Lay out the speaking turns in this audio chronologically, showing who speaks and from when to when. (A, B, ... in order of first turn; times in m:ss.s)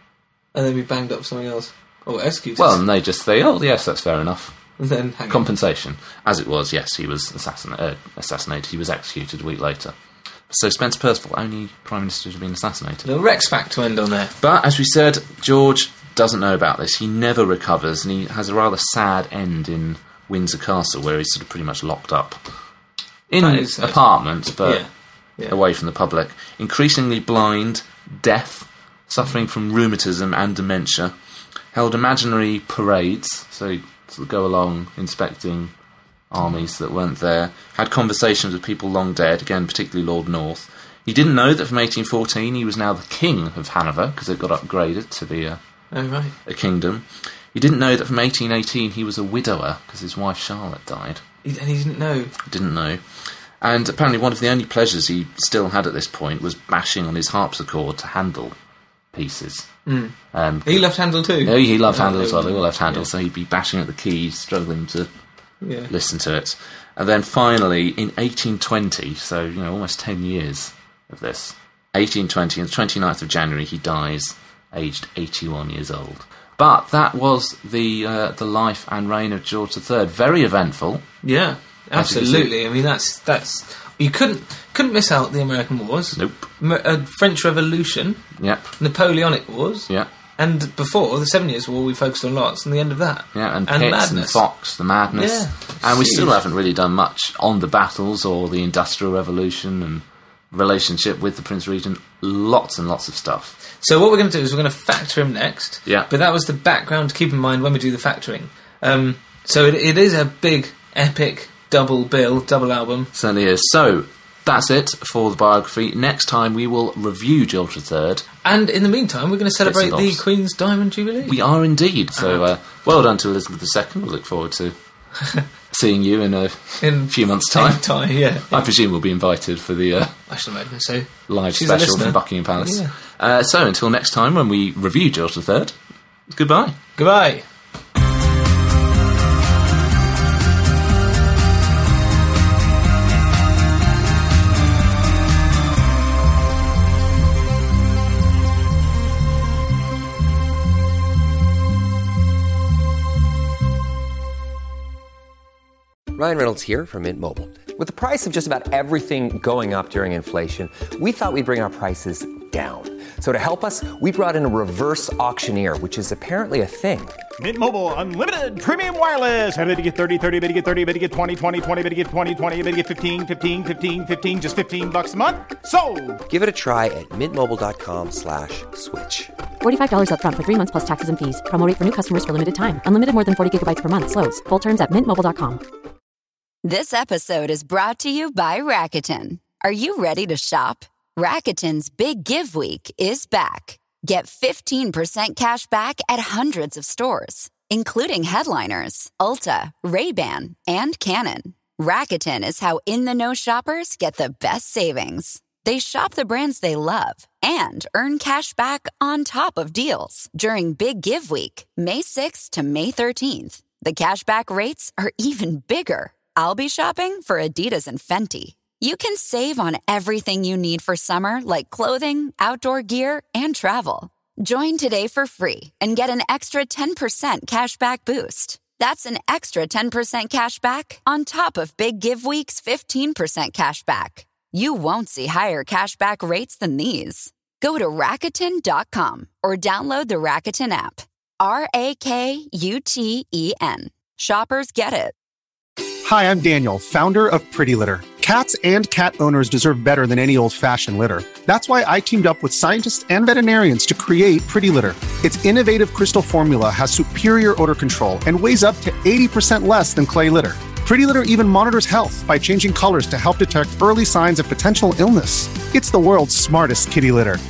0:00.5-0:02.8 A
0:02.6-0:04.6 B
0:04.8-0:05.4 A
0:05.3-0:09.9 B
0:10.5-0:13.1 B
0:13.0-0:14.3 A
0:14.4-0:22.4 B
0:23.3-0:24.8 B
0:23.4-0:24.0 A
0:24.6-0:25.6 A
0:25.5-0:31.1 B
0:31.7-0:35.7 B
0:36.3-0:45.6 B
0:45.9-0:46.3 A
0:46.4-0:51.2 B
0:51.4-0:52.3 A
0:52.4-0:53.0 B
0:53.6-0:58.5 B
0:59.1-0:59.7 B
0:59.8-1:00.1 A
1:00.3-1:00.9 B
1:00.6-1:03.1 A
1:01.4-1:05.1 B
1:05.6-1:05.9 A
1:05.9-1:21.0 B
1:21.2-1:28.2 A
1:21.9-1:22.5 B
1:26.1-1:26.5 B
1:28.4-1:28.7 B
1:28.8-1:34.4 A
1:33.3-1:43.6 B
1:35.1-1:36.4 A
1:43.8-1:53.1 A
1:53.1-1:58.2 B
1:58.4-2:01.4 A
1:59.6-2:00.2 B
2:01.2-2:04.7 B
2:02.2-2:02.4 A
2:05.7-2:07.9 B
2:06.8-2:08.7 A
2:08.5-2:10.1 B
2:10.3-2:12.9 A
2:11.3-2:15.7 B
2:16.3-2:16.8 B
2:17.0-2:17.4 A
2:36.1-2:47.2 C
2:47.4-2:56.2 D
2:56.3-2:59.3 C
2:59.6-3:05.6 E
3:06.6-4:05.1 F
4:06.0-4:27.4 G